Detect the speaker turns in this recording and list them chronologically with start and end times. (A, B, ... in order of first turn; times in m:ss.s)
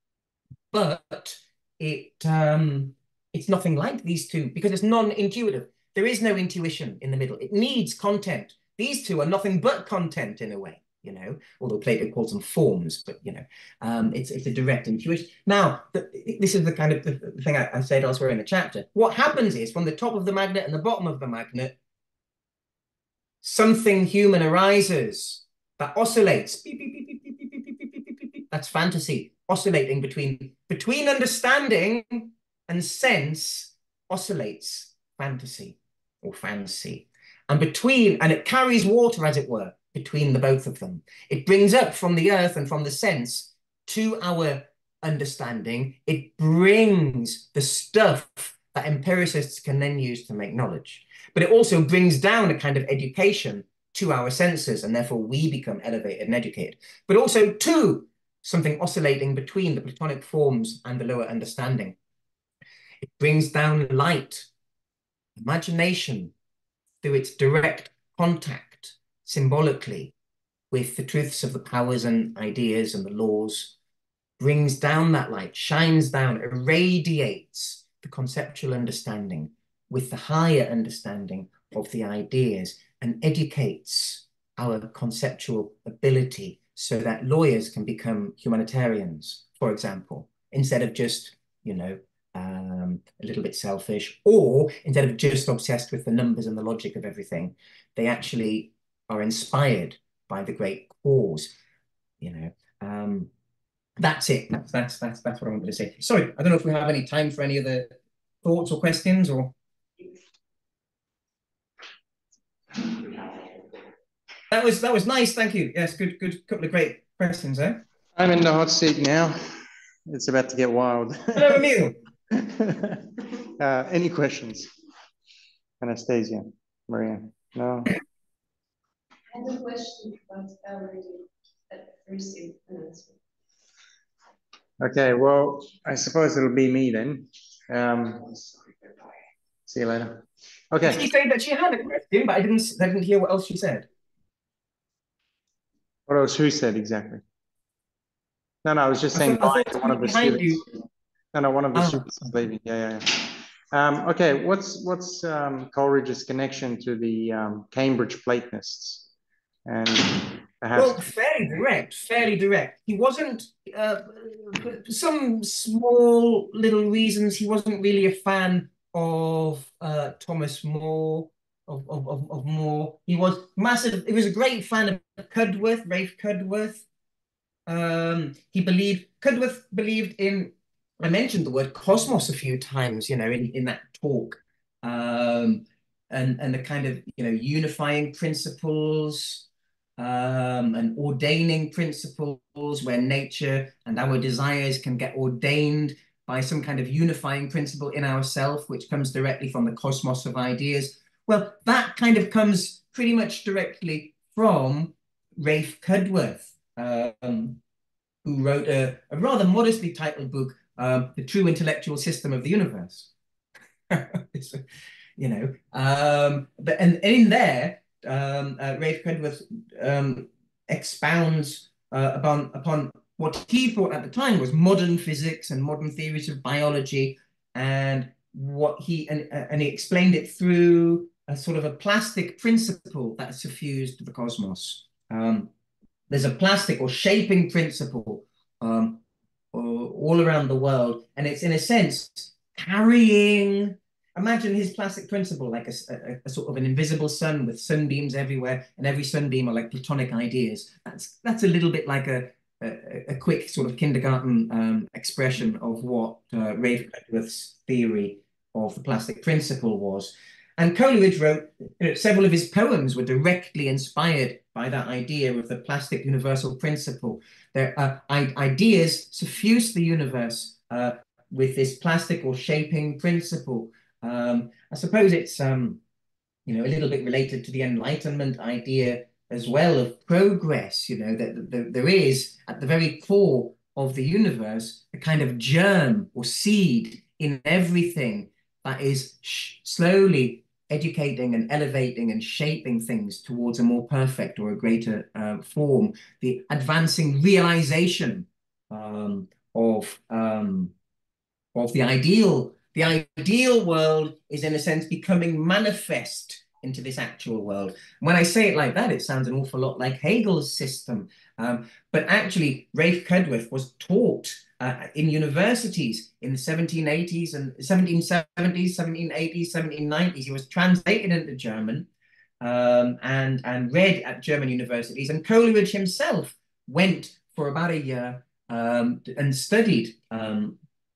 0:00.7-0:21.7 A
0:23.4-1:01.9 A
1:03.0-1:04.5 A
1:05.4-1:06.3 A
1:07.0-1:10.1 A
1:10.7-1:13.7 A
1:14.4-1:41.5 A
1:42.2-1:43.3 A
1:44.0-1:49.5 A
1:54.5-1:57.8 A
1:58.1-2:01.7 B
2:01.3-2:02.0 A
2:02.3-2:04.7 B
2:05.8-2:07.9 B
2:09.3-2:13.1 C
2:14.8-2:18.5 B
2:19.6-2:21.0 B
2:20.8-2:23.8 A
2:26.1-2:27.2 B
2:28.6-2:30.7 B
2:29.1-2:30.6 A
2:31.3-2:39.0 B
2:31.7-2:32.1 A
2:39.6-2:41.0 B
2:40.7-2:56.8 A
2:57.7-3:09.4 A
3:10.0-3:27.6 A
3:28.2-3:33.1 A
3:33.9-3:34.6 A
3:35.2-3:55.5 A
3:56.1-3:59.0 A
3:59.5-4:35.8 A
4:36.4-5:00.7 A
5:01.5-5:21.9 A
5:22.4-5:30.6 A